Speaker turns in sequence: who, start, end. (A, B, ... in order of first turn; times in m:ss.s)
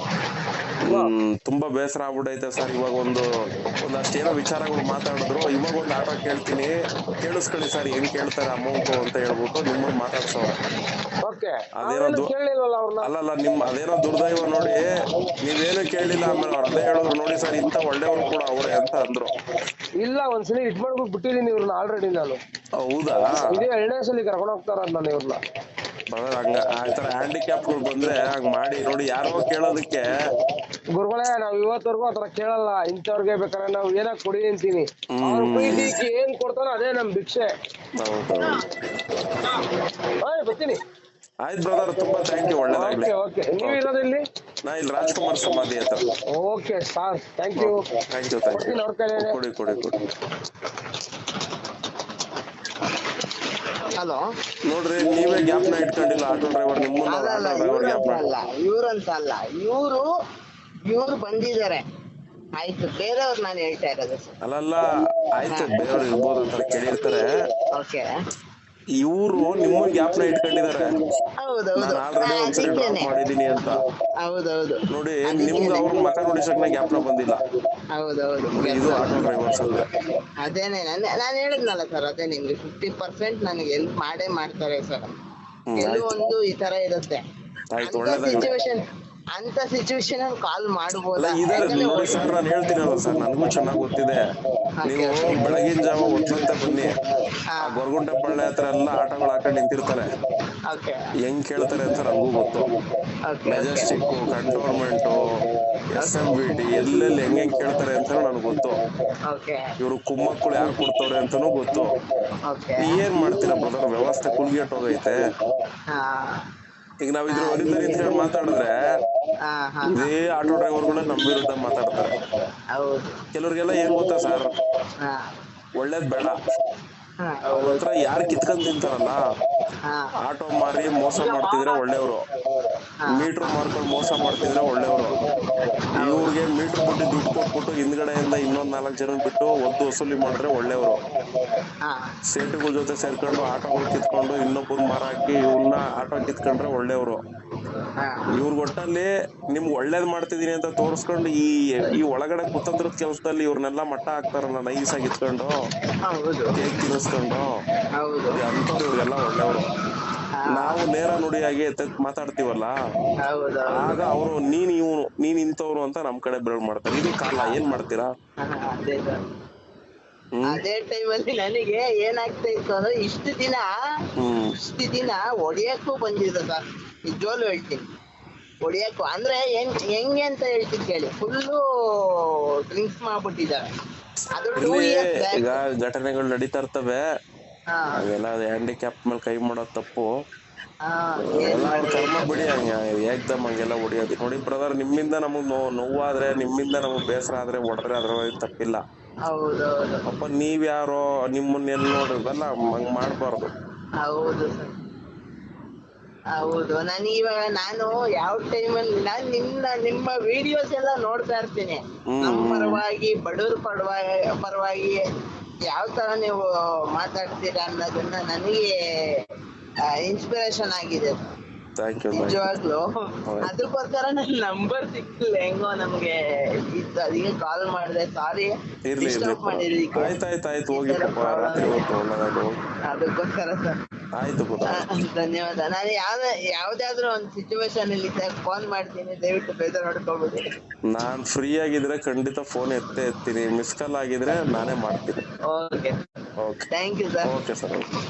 0:00.8-0:03.3 A
0:00.8-0:01.1 B
0:03.8-0:10.6 A
0:11.2-0:13.1 B
0:11.8-0:12.3 A
0:13.0-0:14.9 A
0:15.4-0:19.3 A
0:20.0-0:22.4 B
0:22.8-0:23.6 A
0:23.3-0:25.4 B
0:26.1-0:30.1 A
0:30.9-0:37.5 B
0:35.1-0:36.0 A
0:38.0-0:38.6 A
0:40.2-0:40.8 B
0:41.4-0:43.8 A
0:42.6-0:44.2 B
0:44.6-0:46.1 A
0:46.3-0:47.9 B
0:47.6-0:50.1 A
0:48.5-0:49.4 B
0:53.8-0:54.2 C
0:54.6-0:58.2 A
0:57.1-1:00.0 C
1:00.9-1:01.8 C
1:02.6-1:04.4 C
1:04.4-1:07.3 A
1:05.5-1:05.8 C
1:07.7-1:08.0 C
1:09.0-1:10.9 A
1:11.4-1:13.1 C
1:11.8-1:13.8 A
1:14.2-1:16.1 C
1:14.9-1:17.4 A
1:17.9-1:19.3 C
1:18.6-1:19.9 A
1:20.4-1:25.1 C
1:25.7-1:26.2 A
1:25.8-1:27.2 C
1:27.7-1:28.5 A
1:27.8-1:32.3 C
1:31.2-1:34.2 A
1:34.8-1:35.6 C
1:34.8-1:37.0 A
1:37.5-1:37.8 C
1:37.6-1:40.1 A
1:40.7-1:41.0 C
1:41.2-1:42.7 A
1:43.3-1:44.0 C
1:43.5-1:45.2 A
1:45.9-1:48.8 A
1:46.0-1:46.3 C
1:49.3-1:49.7 C
1:49.8-1:51.9 A
1:52.5-1:53.0 C
1:52.8-1:55.2 A
1:55.9-1:56.4 C
1:57.0-1:58.8 A
1:57.3-1:58.2 C
1:59.5-2:00.1 C
1:59.9-2:02.1 A
2:02.7-2:03.2 C
2:03.3-2:04.5 A
2:05.0-2:05.3 C
2:05.8-2:06.4 A
2:07.2-2:07.8 C
2:07.5-2:09.2 A
2:09.9-2:10.1 C
2:10.2-2:12.2 A
2:13.0-2:13.6 C
2:13.1-2:15.2 A
2:16.0-2:16.3 C
2:16.0-2:21.0 A
2:21.8-2:22.1 C
2:22.3-2:27.2 A
2:28.0-2:28.3 C
2:28.3-2:35.5 A
2:36.0-2:36.6 C
2:36.5-2:37.5 A
2:38.0-2:38.4 C
2:38.3-2:39.7 A
2:40.4-2:40.8 C
2:40.5-2:42.7 A
2:43.2-2:43.9 C
2:43.7-2:48.1 A
2:47.3-2:47.6 C
2:48.4-2:49.2 C
2:50.3-2:50.6 A
2:50.5-2:53.8 C
2:54.2-2:54.5 A
2:54.6-2:57.9 C
2:58.6-3:03.6 C
3:04.3-3:05.6 C
3:04.6-3:07.0 A
3:07.7-3:08.0 C
3:07.9-3:10.1 A
3:10.8-3:12.5 C
3:11.2-3:18.8 A
3:19.2-3:20.0 C
3:20.1-3:23.5 A
3:24.0-3:24.7 C
3:26.3-3:35.0 C
3:32.1-3:32.8 A
3:35.6-3:39.2 C
3:39.9-3:41.3 C
3:41.8-3:42.5 A
3:42.1-3:50.1 C
3:43.2-3:43.6 A
3:48.8-3:52.6 A
3:50.7-3:51.8 C
3:52.9-3:53.8 C
3:54.2-3:55.0 A
3:54.7-4:00.5 C
4:00.9-4:05.2 A
4:05.5-4:06.0 C
4:06.4-4:06.7 A
4:06.7-4:07.3 C
4:07.2-4:07.9 A